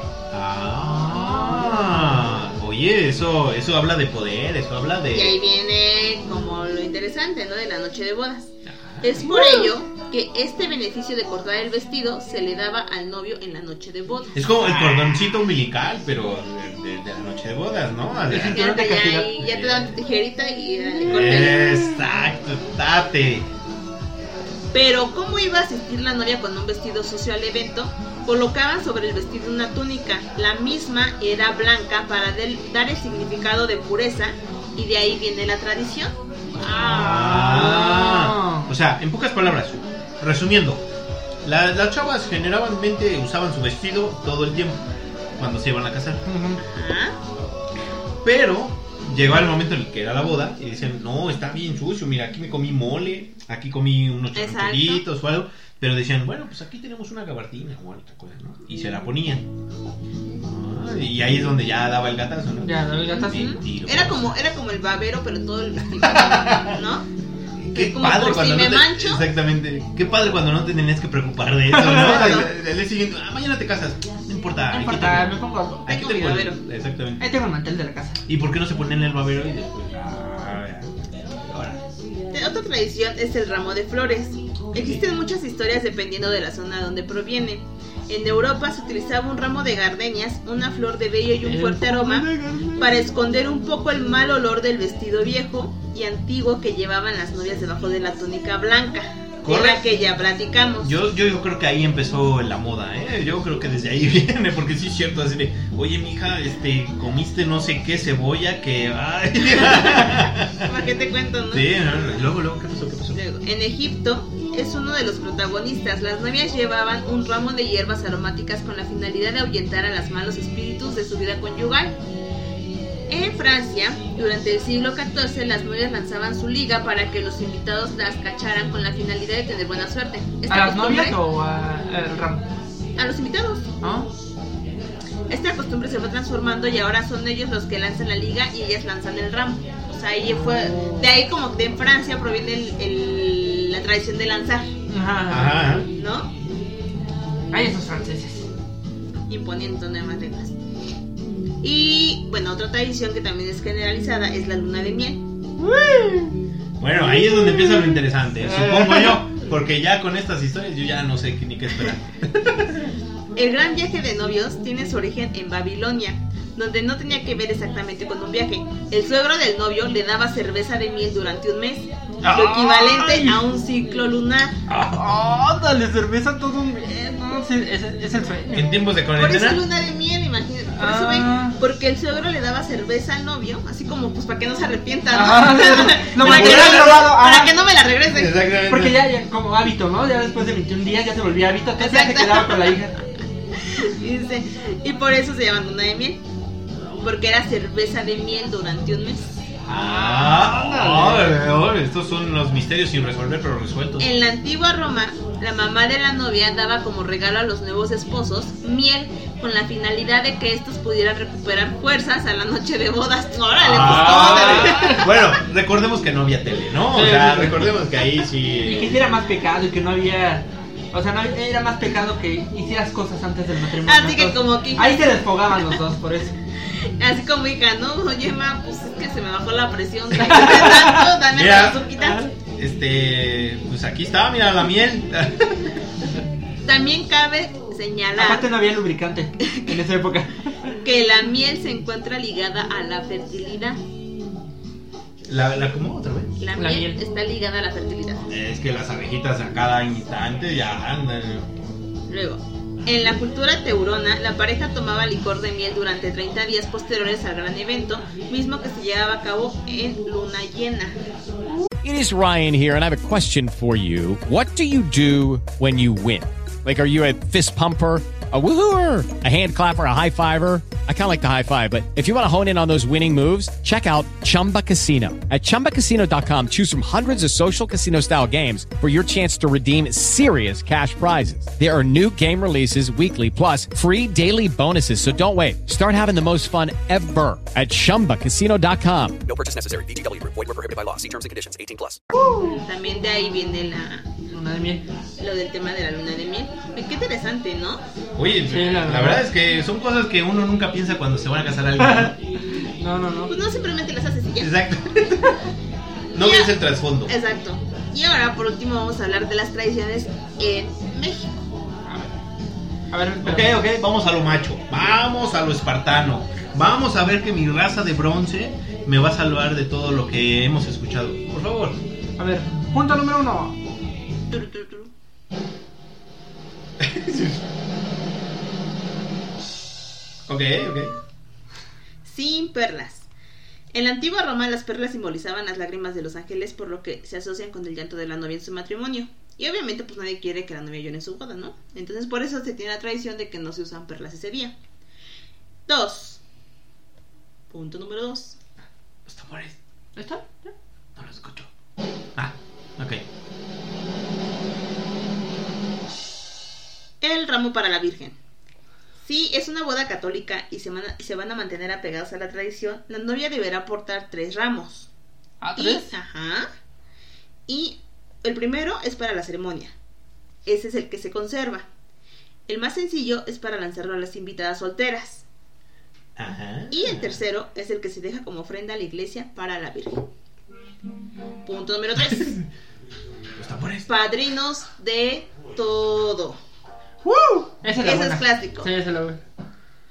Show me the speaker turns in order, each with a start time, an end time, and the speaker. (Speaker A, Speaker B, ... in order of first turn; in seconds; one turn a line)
Speaker A: 0.3-5.4
Speaker B: 1.1-2.3
Speaker C: 5.1-8.5
Speaker A: 8.7-9.3
Speaker C: 9.0-14.5
Speaker B: 9.2-9.7
Speaker A: 14.3-18.7
Speaker B: 14.6-15.2
Speaker B: 18.3-19.3
Speaker C: 18.5-21.8
Speaker A: 19.4-19.9
Speaker A: 21.0-23.5
Speaker C: 24.7-37.4
Speaker A: 36.6-40.8
Speaker B: 36.8-38.7
Speaker A: 41.4-44.8
Speaker A: 45.4-46.6
Speaker C: 46.6-47.1
Speaker A: 48.2-59.5
Speaker C: 54.3-55.0
Speaker A: 60.4-64.3
Speaker B: 62.6-63.5
Speaker C: 63.3-67.0
Speaker A: 66.0-66.8
Speaker A: 67.7-75.3
Speaker C: 67.7-69.3
Speaker B: 71.7-72.4
Speaker C: 71.9-72.5
Speaker B: 74.7-75.9
Speaker A: 75.8-77.3
Speaker C: 75.9-76.6
Speaker B: 77.2-78.2
Speaker A: 78.2-81.8
Speaker C: 82.3-101.0
Speaker A: 84.7-85.0
Speaker B: 91.4-92.9
Speaker A: 99.4-99.8
Speaker A: 100.8-110.7
Speaker C: 109.7-110.0
Speaker C: 110.6-111.7
Speaker A: 111.5-113.2
Speaker C: 113.1-122.0
Speaker C: 123.1-131.2
Speaker B: 130.5-132.5
Speaker C: 132.9-133.7
Speaker B: 133.8-134.1
Speaker C: 135.3-144.7
Speaker B: 144.9-145.7
Speaker A: 145.3-145.9
Speaker C: 145.9-146.3
Speaker B: 147.5-148.5
Speaker C: 149.3-150.5
Speaker C: 151.6-155.2
Speaker B: 155.6-156.3
Speaker A: 156.8-162.8
Speaker B: 157.1-159.2
Speaker C: 163.3-174.6
Speaker B: 172.2-173.4
Speaker A: 174.7-175.0
Speaker B: 174.8-178.7
Speaker A: 178.5-179.6
Speaker C: 179.1-188.3
Speaker B: 180.8-181.6
Speaker B: 185.1-187.5
Speaker A: 186.2-187.1
Speaker A: 188.1-189.0
Speaker B: 188.7-192.9
Speaker C: 191.8-192.8
Speaker C: 193.6-196.2
Speaker C: 197.0-199.3
Speaker A: 199.7-204.1
Speaker B: 199.7-201.4
Speaker C: 204.0-215.1
Speaker A: 213.6-219.0
Speaker B: 213.8-215.1
Speaker B: 216.9-217.8
Speaker B: 218.6-226.3
Speaker C: 223.8-225.2
Speaker C: 227.0-232.3
Speaker B: 230.3-231.1
Speaker A: 231.3-231.9
Speaker B: 232.0-232.2
Speaker A: 232.5-235.8
Speaker C: 236.6-238.5
Speaker B: 238.2-240.5
Speaker C: 240.8-243.8
Speaker A: 245.3-246.3
Speaker C: 246.4-248.2
Speaker B: 246.6-247.0
Speaker A: 248.3-251.6
Speaker C: 252.1-261.0
Speaker D: 261.8-289.2
Speaker E: 289.3-292.0
Speaker B: 292.1-292.6
Speaker C: 292.5-294.1
Speaker B: 294.3-294.8
Speaker C: 295.2-297.8
Speaker A: 298.1-302.1
Speaker B: 298.5-299.3
Speaker B: 301.8-303.3
Speaker C: 303.3-304.5
Speaker A: 304.4-305.4
Speaker A: 306.1-307.1
Speaker C: 306.2-306.5
Speaker C: 307.1-311.4
Speaker B: 311.9-312.1
Speaker B: 312.9-313.6
Speaker A: 313.2-321.8
Speaker B: 322.2-323.6
Speaker C: 324.3-324.9
Speaker A: 326.8-327.4
Speaker A: 330.3-330.9
Speaker C: 332.0-333.1
Speaker C: 333.7-344.5
Speaker C: 345.7-346.2
Speaker C: 347.5-348.4
Speaker A: 349.1-349.6
Speaker B: 349.9-350.5
Speaker A: 350.9-351.5
Speaker A: 352.1-353.0
Speaker C: 357.0-358.1
Speaker C: 359.0-364.9
Speaker B: 365.4-365.9
Speaker C: 365.6-366.5
Speaker C: 367.5-369.7
Speaker C: 370.4-371.7
Speaker C: 372.5-375.2
Speaker A: 376.1-377.2
Speaker C: 376.7-380.1
Speaker C: 381.4-382.4
Speaker A: 383.4-383.9
Speaker C: 383.9-386.4
Speaker B: 387.0-389.2
Speaker C: 387.8-388.7